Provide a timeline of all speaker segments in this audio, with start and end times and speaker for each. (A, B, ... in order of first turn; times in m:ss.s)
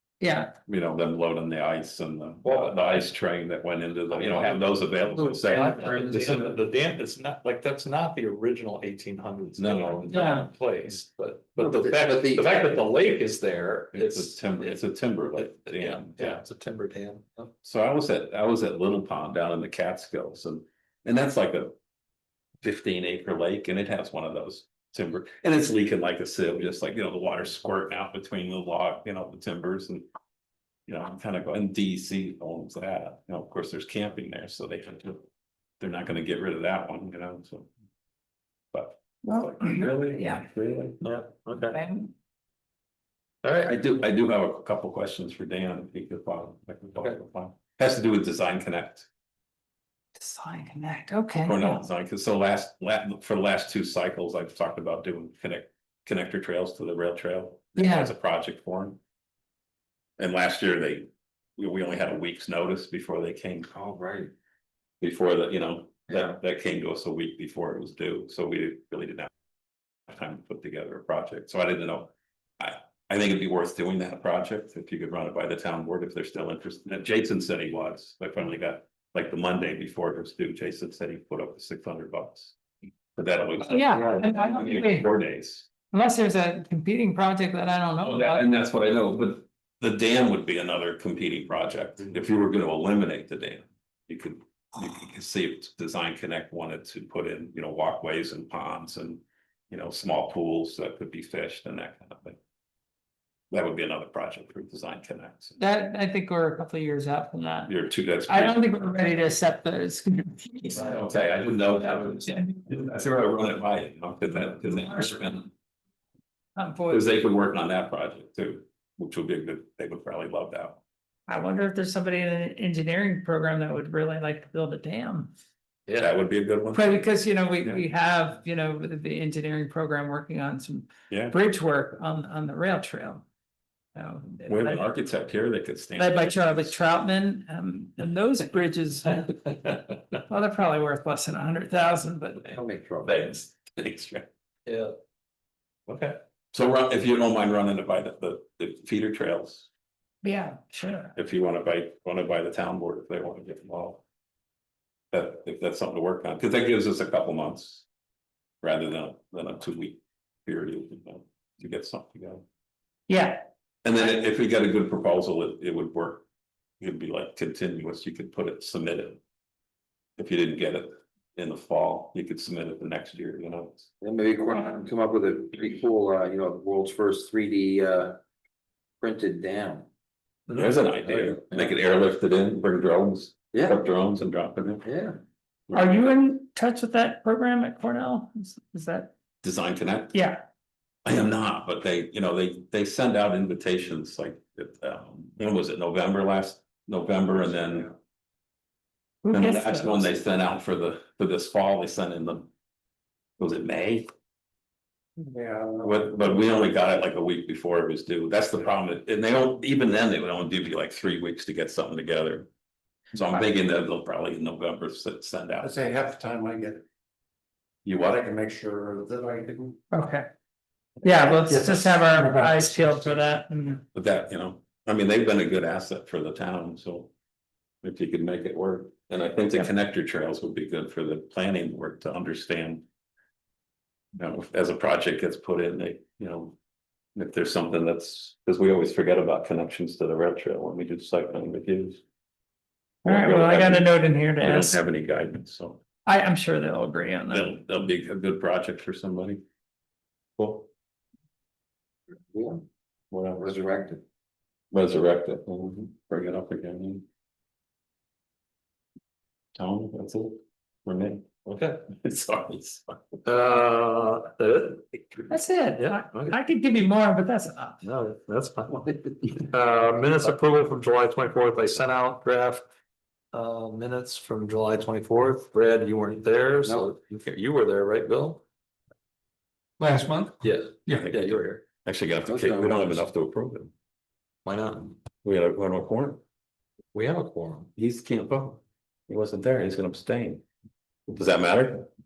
0:00.2-0:00.6 A
0:00.7-0:06.5 B
0:02.4-0:03.0 C
0:04.1-0:04.6 C
0:05.4-0:14.8 C
0:09.6-0:10.1 B
0:10.1-0:10.5 A
0:11.6-0:12.7 D
0:13.9-0:16.4 B
0:15.4-0:17.5 C
0:17.6-0:21.8 B
0:22.6-0:30.0 B
0:30.9-0:35.2 B
0:35.8-0:37.7 B
0:38.7-0:41.0 B
0:39.2-0:40.4 A
0:41.0-0:41.8 C
0:41.7-0:42.1 A
0:43.4-0:43.8 C
0:43.6-0:49.1 B
0:50.2-0:51.8 A
0:51.4-0:59.0 B
0:57.8-0:58.1 A
1:00.2-1:03.7 B
1:03.7-1:04.3 D
1:05.0-1:09.3 B
1:06.1-1:06.4 D
1:10.1-1:22.6 B
1:23.2-1:25.7 B
1:23.6-1:25.1 A
1:23.9-1:24.3 D
1:25.9-1:28.4 A
1:28.0-1:42.4 B
1:43.5-1:45.6 B
1:45.6-1:47.7 A
1:47.7-1:48.6 B
1:48.3-1:50.9 A
1:50.7-1:55.5 B
1:52.1-1:52.5 A
1:56.6-1:57.0 A
1:56.9-2:00.8 B
2:01.3-2:05.3 A
2:05.9-2:06.1 C
2:06.0-2:07.0 B
2:06.7-2:13.2 A
2:11.1-2:11.3 B
2:13.9-2:14.8 A
2:14.5-2:16.8 B
2:16.0-2:19.2 A
2:19.3-2:19.8 C
2:20.3-2:22.5 A
2:22.5-2:23.1 D
2:23.0-2:24.3 B
2:24.7-2:24.9 C
2:25.9-2:26.2 C
2:26.5-2:29.7 B
2:30.2-2:31.2 A
2:31.2-2:34.0 B
2:35.1-2:37.8 B
2:38.6-2:42.4 B
2:43.1-2:43.4 A
2:43.8-2:46.2 B
2:46.8-2:49.2 B
2:50.2-2:53.9 B
2:54.0-2:58.2 D
2:59.0-2:59.9 D
3:00.5-3:00.8 C
3:00.5-3:04.9 B
3:01.1-3:01.7 D
3:03.5-3:03.8 D
3:04.8-3:05.2 D
3:05.7-3:06.0 B
3:05.7-3:09.1 A
3:09.4-3:10.2 B
3:10.1-3:10.4 A
3:11.0-3:17.9 B
3:19.2-3:20.1 A
3:19.3-3:22.5 B
3:23.4-3:24.1 B
3:25.2-3:26.2 E
3:25.8-3:32.5 B
3:33.1-3:35.8 B
3:35.6-3:36.8 E
3:37.8-3:39.8 E
3:39.9-3:40.3 A
3:41.0-3:43.8 A
3:41.4-3:43.1 E
3:43.9-3:47.1 B
3:47.8-3:52.8 B
3:54.2-3:56.6 B
3:57.2-4:02.0 B
4:03.0-4:04.8 A
4:03.0-4:05.8 B
4:06.0-4:07.6 A
4:07.3-4:09.4 B
4:10.4-4:10.7 B
4:12.3-4:12.6 D
4:13.1-4:13.5 B
4:13.4-4:14.0 D
4:14.7-4:17.0 B
4:19.6-4:23.2 B
4:21.5-4:21.8 C
4:23.2-4:26.3 C
4:25.3-4:27.8 A
4:27.8-4:32.6 C
4:33.3-4:38.4 C
4:40.4-4:41.6 C
4:40.9-4:43.7 B
4:42.2-4:43.0 D
4:44.4-4:45.0 C
4:45.2-4:46.2 B
4:46.9-4:47.7 C
4:47.8-4:50.4 B
4:51.1-4:51.9 B